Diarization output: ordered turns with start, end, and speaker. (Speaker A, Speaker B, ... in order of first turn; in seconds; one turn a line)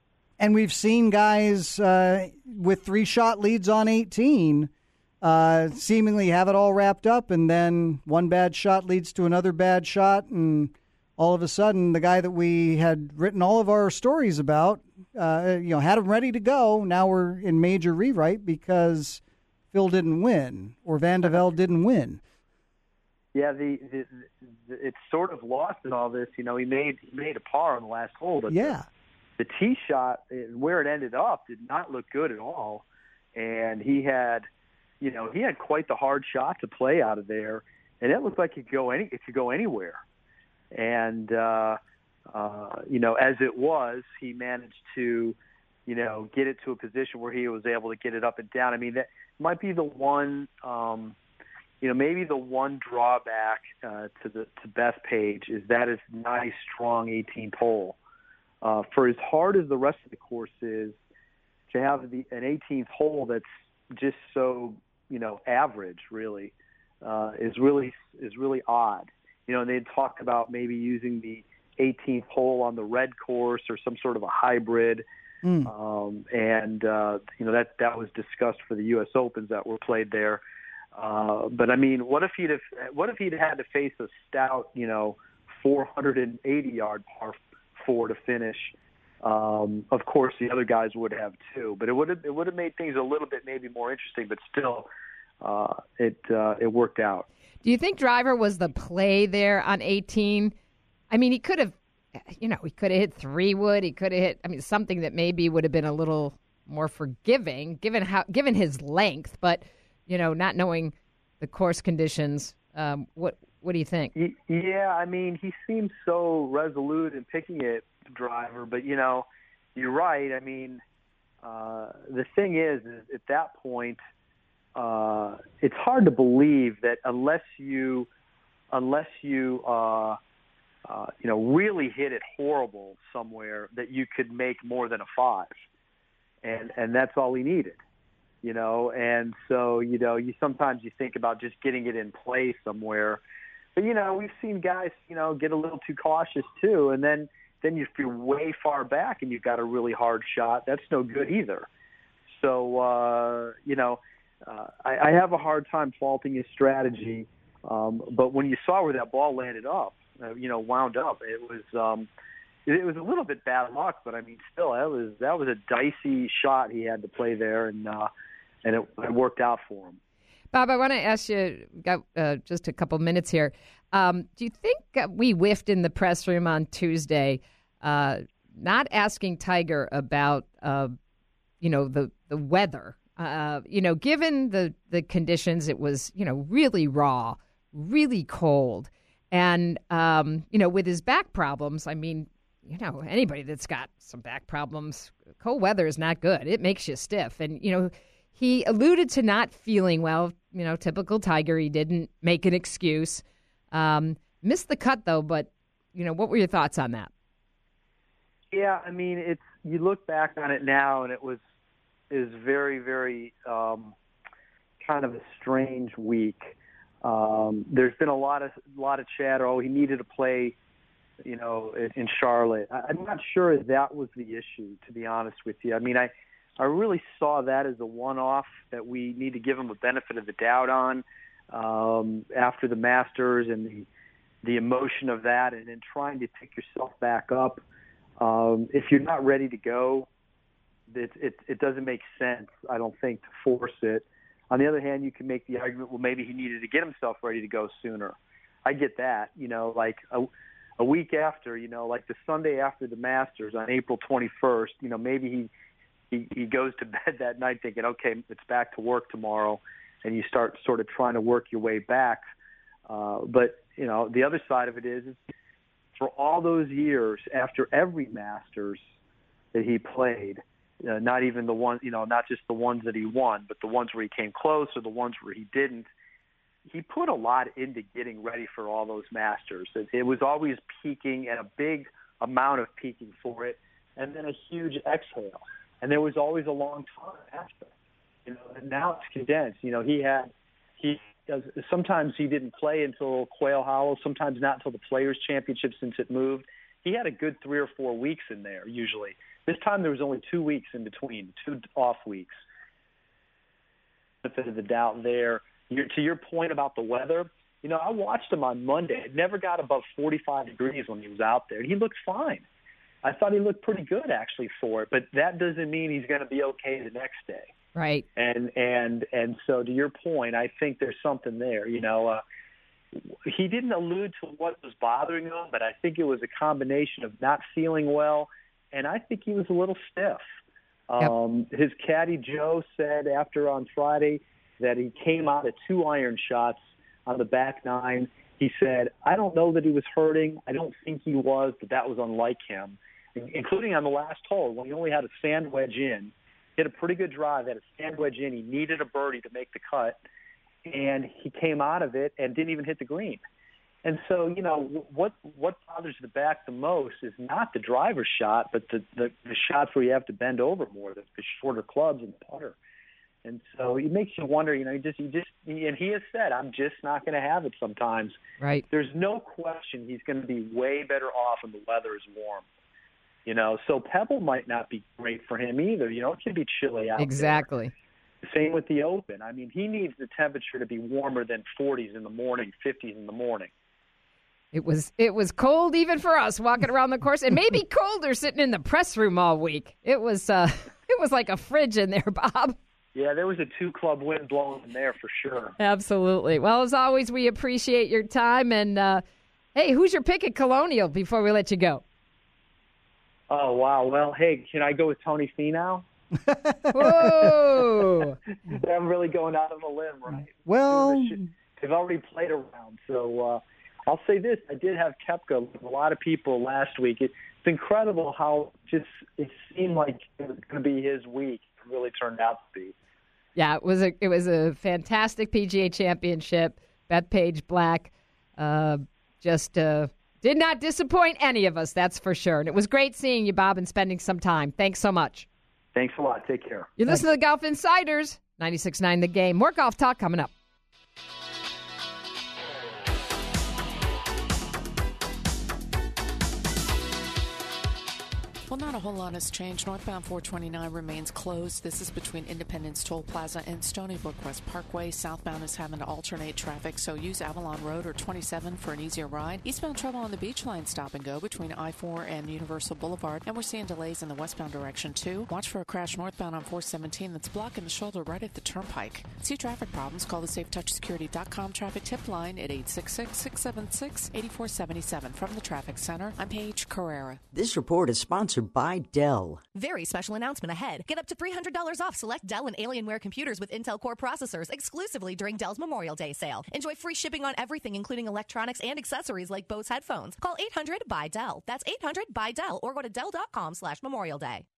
Speaker A: 0.4-4.7
Speaker A: 5.2-22.2
Speaker B: 23.3-28.8
Speaker A: 28.5-28.9
Speaker B: 29.4-32.8
Speaker B: 33.4-34.5
Speaker B: 35.0-40.0
Speaker B: 40.7-41.8
Speaker B: 42.3-51.2
Speaker B: 51.8-58.0
Speaker B: 58.6-61.0
Speaker B: 61.7-75.0
Speaker A: 75.4-75.7
Speaker B: 75.6-80.4
Speaker B: 81.0-94.9
Speaker B: 95.4-97.3
Speaker C: 97.6-100.5
Speaker C: 101.1-114.1
Speaker B: 114.2-120.8
Speaker B: 121.4-124.0
Speaker B: 124.8-128.1
Speaker B: 128.7-130.2
Speaker B: 130.9-135.5
Speaker B: 136.4-137.8
Speaker B: 138.4-143.2
Speaker B: 143.8-151.7
Speaker B: 152.3-162.1
Speaker B: 162.7-168.1
Speaker B: 168.6-170.0
Speaker C: 170.5-181.0
Speaker C: 181.6-207.1
Speaker B: 208.5-211.4
Speaker B: 212.1-213.9
Speaker B: 214.8-220.6
Speaker B: 221.2-233.9
Speaker B: 234.4-237.6
Speaker B: 238.2-240.1
Speaker B: 240.9-255.5
Speaker B: 256.1-262.2
Speaker B: 262.9-265.2
Speaker B: 266.0-268.8
Speaker B: 269.5-275.9
Speaker B: 276.7-287.7
Speaker B: 288.2-302.3
Speaker B: 304.2-312.4
Speaker B: 313.0-317.5
Speaker C: 317.8-318.1
Speaker B: 318.2-322.2
Speaker B: 323.2-330.2
Speaker B: 330.9-350.0
Speaker B: 350.7-353.2
Speaker B: 353.8-362.6
Speaker B: 363.2-368.2
Speaker C: 368.4-368.6
Speaker B: 368.7-372.4
Speaker B: 373.2-377.4
Speaker C: 377.0-377.7
Speaker B: 378.2-383.5
Speaker C: 384.5-392.6
Speaker B: 392.9-395.6
Speaker C: 395.6-399.0
Speaker C: 399.6-401.8
Speaker B: 403.3-405.9
Speaker A: 406.3-407.7
Speaker C: 406.7-408.2
Speaker B: 408.5-422.7
Speaker A: 410.1-411.3
Speaker C: 423.4-435.3
Speaker B: 435.8-436.7
Speaker C: 436.8-440.3
Speaker D: 448.5-477.2
Speaker E: 477.3-479.4
Speaker F: 479.6-494.4